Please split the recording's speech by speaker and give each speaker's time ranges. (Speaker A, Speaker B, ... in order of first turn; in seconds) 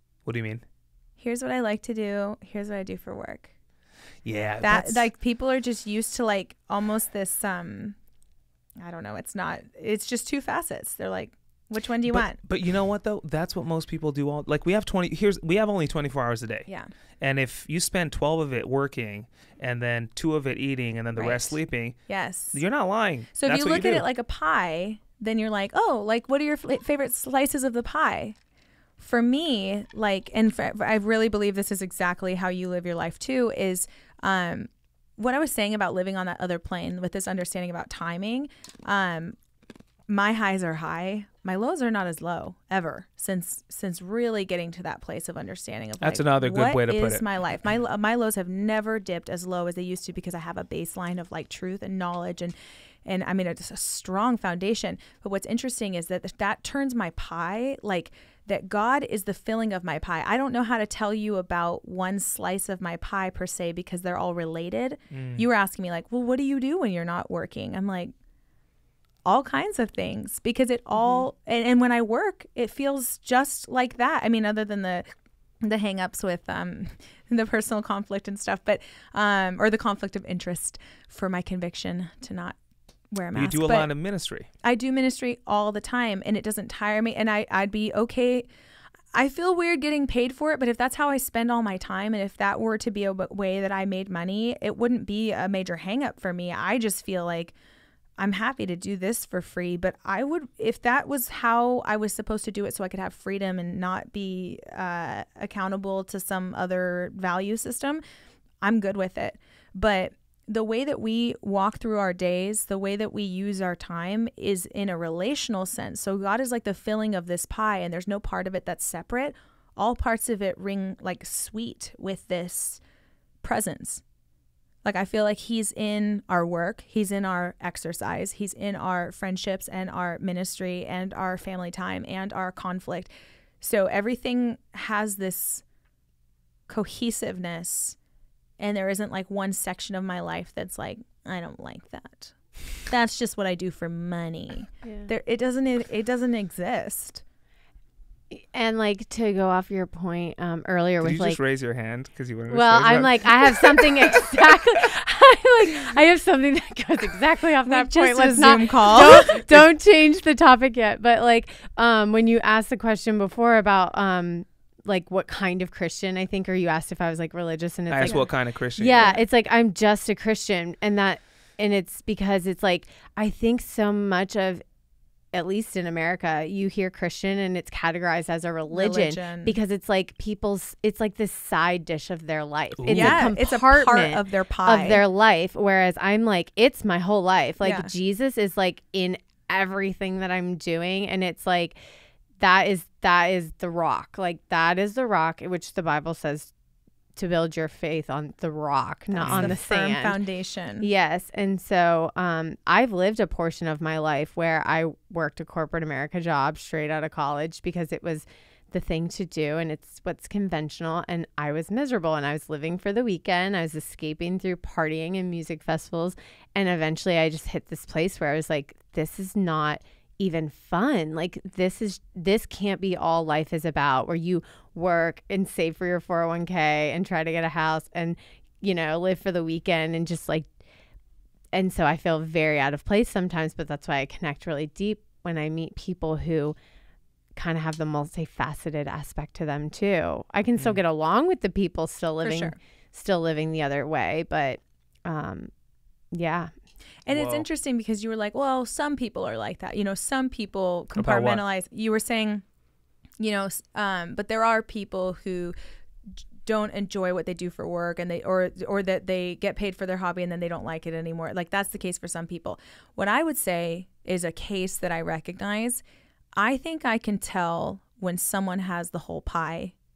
Speaker A: 0.3-0.6, 4.2-5.1, 12.1-24.1, 46.0-47.2, 65.1-65.5, 83.3-84.5, 151.0-153.9, 167.9-169.2, 182.8-183.3, 199.2-199.6, 240.6-240.8, 247.1-247.5, 250.9-251.4
Speaker B: 1.2-3.5, 4.6-8.0, 8.8-12.4, 21.2-22.7, 23.4-28.4, 29.0-39.4, 40.1-68.1, 69.2-75.1, 75.6-82.6, 83.1-83.9, 84.6-88.5, 89.1-97.5, 98.2-108.0, 108.6-122.8, 123.4-124.0, 124.8-135.6, 136.7-138.0, 138.6-147.2, 157.7-159.6, 169.0-169.2, 178.7-179.6, 182.9-185.1, 187.6-187.9, 199.2-200.9, 242.2-242.6, 247.1-252.4, 253.2-255.6, 256.4-265.8, 266.4-269.8
Speaker C: 144.8-145.1, 148.3-151.4, 152.5-174.6, 175.3-191.8, 192.4-196.5, 197.2-200.2, 200.8-230.5, 231.5-236.6, 237.4-245.5, 246.1-246.5